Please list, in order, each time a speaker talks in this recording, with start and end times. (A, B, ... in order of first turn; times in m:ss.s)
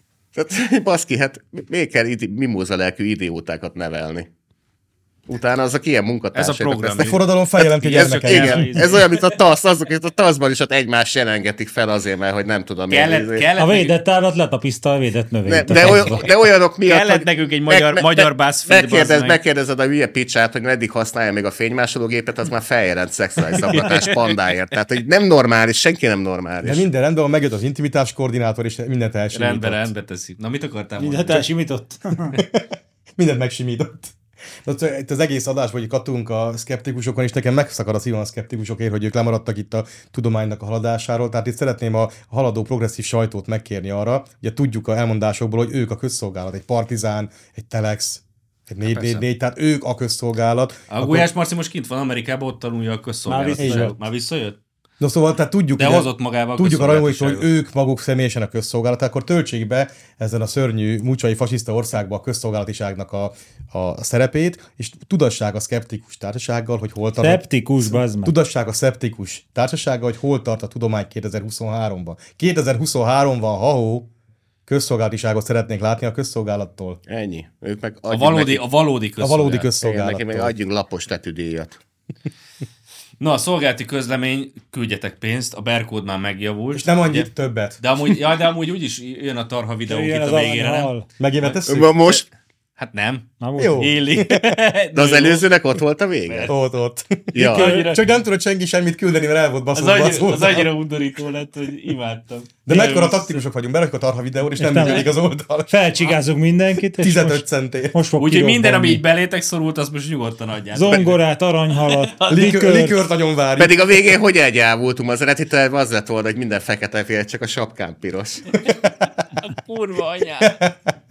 0:00.4-0:04.3 A
0:05.3-0:13.5 A
0:06.3-0:07.2 B
0:07.0-0:09.0 C
0:07.8-0:09.4 B
0:12.9-0:13.9 B
0:13.6-0:16.2 D
0:15.5-0:26.9 A
0:15.7-0:19.4 B
0:23.6-0:24.3 B
0:26.6-0:29.9 C
0:29.3-0:31.5 B
0:31.0-0:32.4 D
0:32.3-0:51.3 C
0:48.8-0:49.3 B
0:50.9-0:54.6 B
0:53.3-0:53.9 D
0:53.6-0:54.0 C
0:55.0-1:14.1 C
0:55.8-0:57.5 B
1:07.2-1:08.4 D
1:14.7-1:17.0 C
1:17.1-1:18.6 A
1:18.1-1:19.7 B
1:19.2-1:20.5 C
1:19.8-1:21.8 A
1:23.2-1:27.3 B
1:26.7-1:27.8 C
1:27.8-1:32.2 B
1:29.9-1:31.1 D
1:31.2-1:32.0 C
1:31.7-1:32.2 A
1:32.8-1:35.5 B
1:33.4-1:33.9 D
1:33.6-1:34.6 C
1:35.0-1:36.5 A
1:36.3-1:36.6 B
1:36.5-1:40.7 C
1:37.3-1:37.6 A
1:37.4-1:38.0 D
1:37.4-1:38.0 B
1:39.7-1:43.4 B
1:42.6-1:45.7 C
1:44.6-1:45.1 D
1:44.8-1:45.1 B
1:45.7-1:49.0 D
1:47.0-1:48.0 C
1:48.2-1:51.2 B
1:50.7-1:53.0 D
1:51.8-1:52.5 B
1:52.3-1:53.9 C
1:53.6-1:58.6 A
1:59.4-2:00.6 B
2:00.5-2:00.7 C